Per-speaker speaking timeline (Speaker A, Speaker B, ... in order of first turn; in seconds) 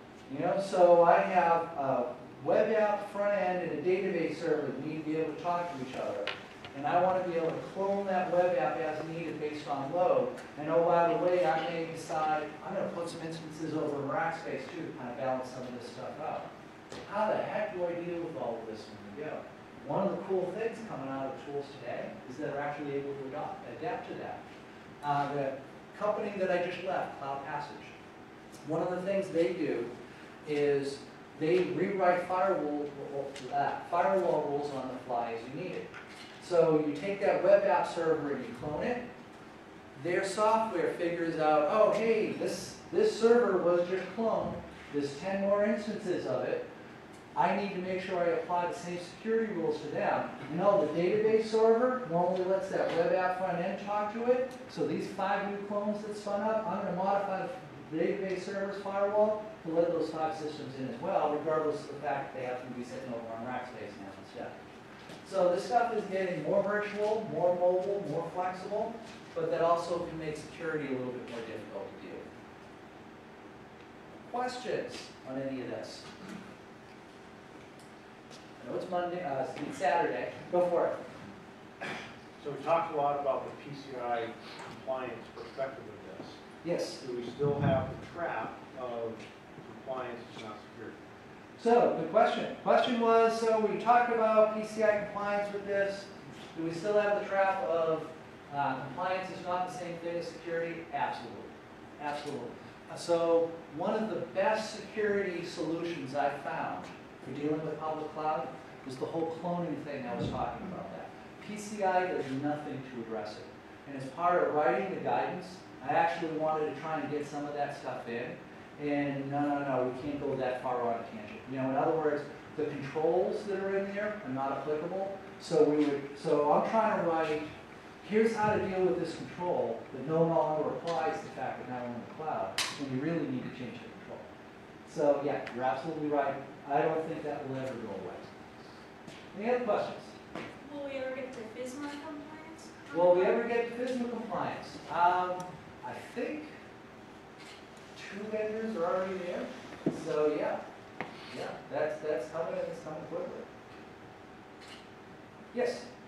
Speaker A: 0.3-16.5, 17.0-24.4, 25.0-27.9, 28.6-29.9, 30.5-35.9, 36.4-39.0, 40.0-46.7, 47.4-64.5, 65.2-72.3, 74.2-76.1, 78.6-81.0, 86.6-87.0, 91.6-127.5, 128.0-134.3, 134.9-138.3, 139.3-140.2, 142.9-146.5, 147.9-150.6, 151.3-153.5, 155.5-155.9
Speaker B: 82.4-86.4, 87.0-91.0
Speaker C: 140.6-143.4